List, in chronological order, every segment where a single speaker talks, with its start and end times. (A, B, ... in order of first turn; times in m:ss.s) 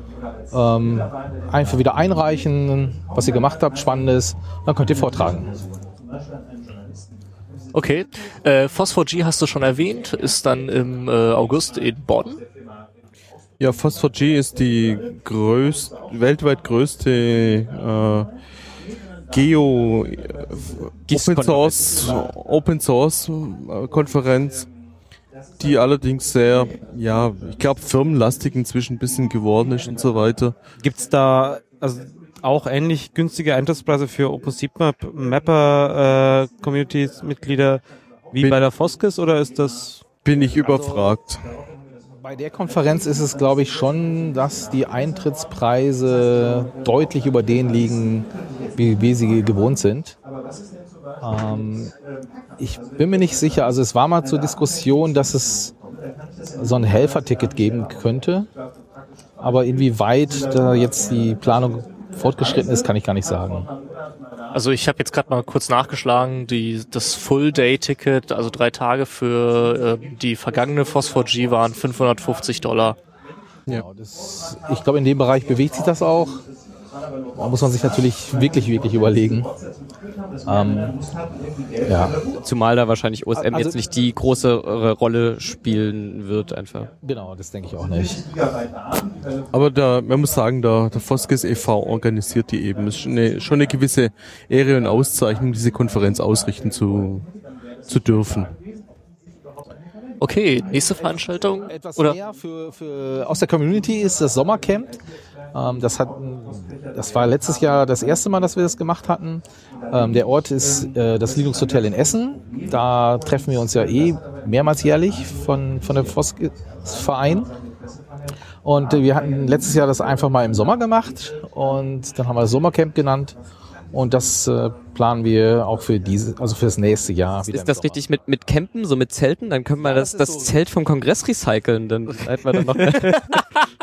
0:00.5-0:05.5 A
0:07.7-0:12.4 B
0:13.6-0:18.3 C
0:19.3-0:24.7 C
0:21.1-0:22.3 D
0:25.6-0:30.6 C
0:30.8-0:40.0 E
0:40.2-0:41.5 C
0:40.6-0:41.1 A
0:42.2-0:50.2 A
0:51.2-0:51.9 A
0:52.6-0:55.7 A
0:56.5-0:58.5 A
0:59.4-1:03.7 A
1:04.5-1:13.0 B
1:13.7-1:16.4 A
1:17.4-1:19.5 A
1:20.4-1:21.0 A
1:21.8-1:22.2 A
1:22.4-1:26.9 D
1:23.3-1:23.8 A
1:27.0-1:28.2 A
1:29.5-1:37.3 C
1:37.8-1:38.5 C
1:40.2-1:42.2 B
1:41.7-1:45.0 A
1:45.5-1:57.5 A
1:58.6-2:03.4 A
2:03.9-2:08.0 A
2:07.5-2:13.4 D
2:09.8-2:10.6 A
2:12.6-2:13.4 E